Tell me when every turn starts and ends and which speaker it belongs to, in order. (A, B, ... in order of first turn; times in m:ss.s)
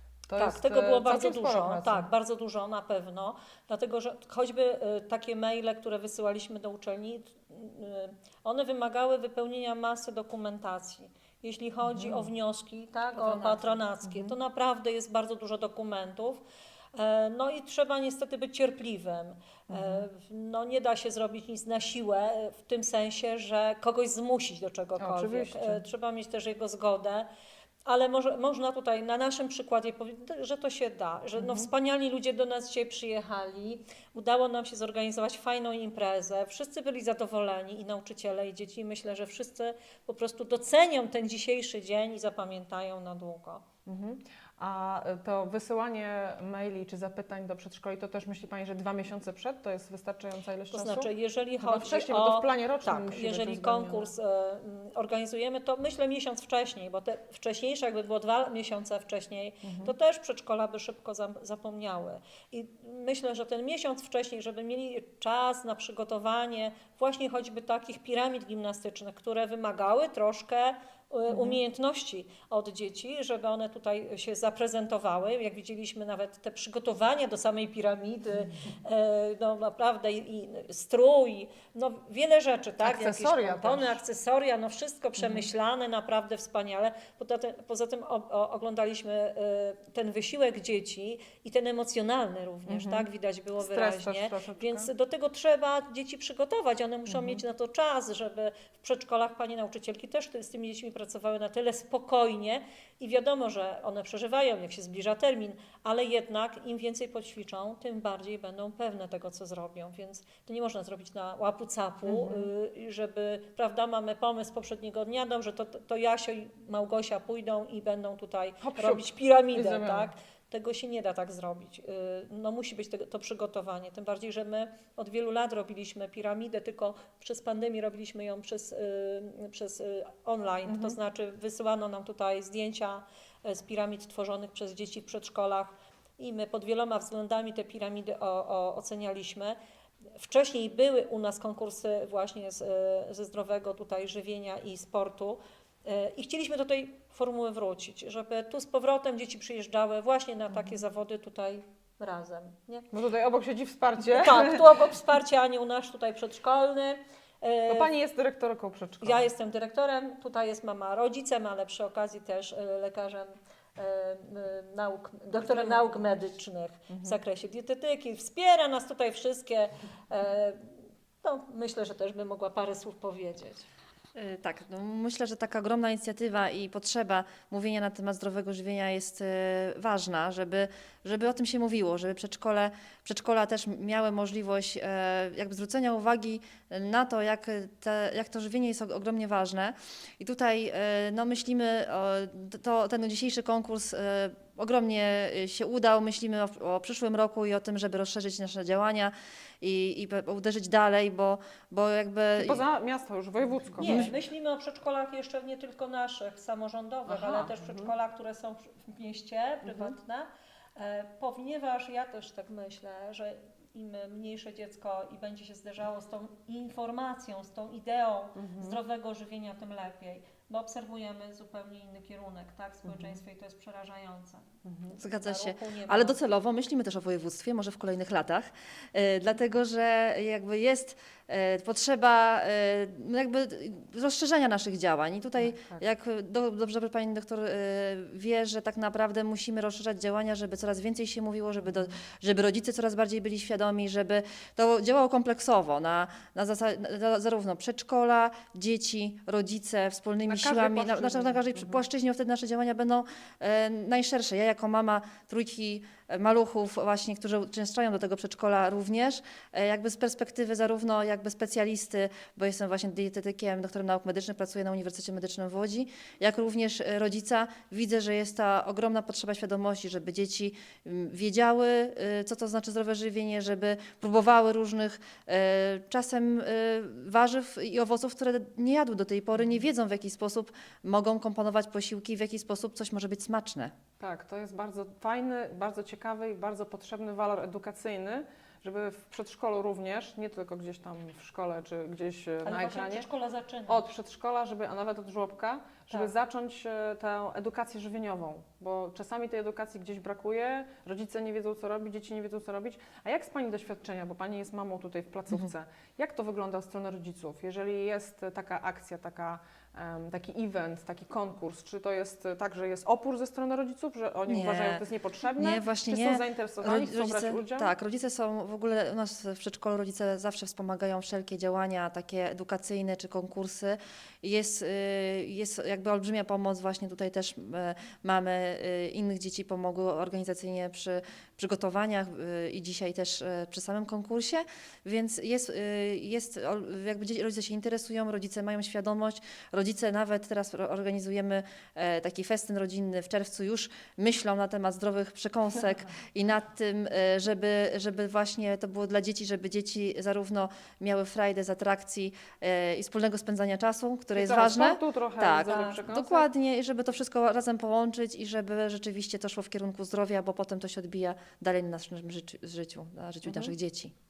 0:00.3-0:02.1 A
0:00.4-0:16.4 B
0:11.8-0:12.3 A
0:13.2-0:13.8 C
0:14.0-0:14.4 A
0:16.9-0:27.3 B
0:19.7-0:20.1 A
0:25.0-0:25.8 A
0:27.9-0:43.6 B
0:31.4-0:31.7 A
0:43.9-0:54.1 A
0:50.7-2:19.6 B
0:59.6-0:59.9 A
1:11.3-1:11.6 A
1:22.8-1:24.0 A
1:25.2-1:25.5 A
1:32.7-1:34.9 A
1:37.1-1:37.4 A
1:52.1-1:52.5 A
1:58.6-2:00.1 A
2:10.7-2:11.0 A
2:20.1-2:32.9 B
2:32.9-2:34.8 A
2:34.2-2:37.9 B
2:37.7-2:39.3 A
2:39.0-2:53.7 B
2:45.4-2:46.3 A
2:46.9-2:47.2 A
2:54.2-3:22.6 C
3:22.4-3:24.1 A
3:23.8-3:24.1 C
3:23.8-3:44.6 B
3:27.1-3:27.9 A
3:29.6-3:29.9 A
3:38.4-3:38.8 A
3:42.9-3:43.2 A
3:44.6-3:45.0 A
3:45.0-4:43.8 C
3:45.1-3:46.2 B
3:55.4-3:55.8 A
4:10.3-4:11.8 A
4:44.0-4:53.1 A
4:52.4-4:53.8 B
4:53.7-5:17.7 A
5:14.3-5:14.8 C
5:15.4-6:03.9 C
5:54.2-5:56.3 A
6:03.2-6:03.5 A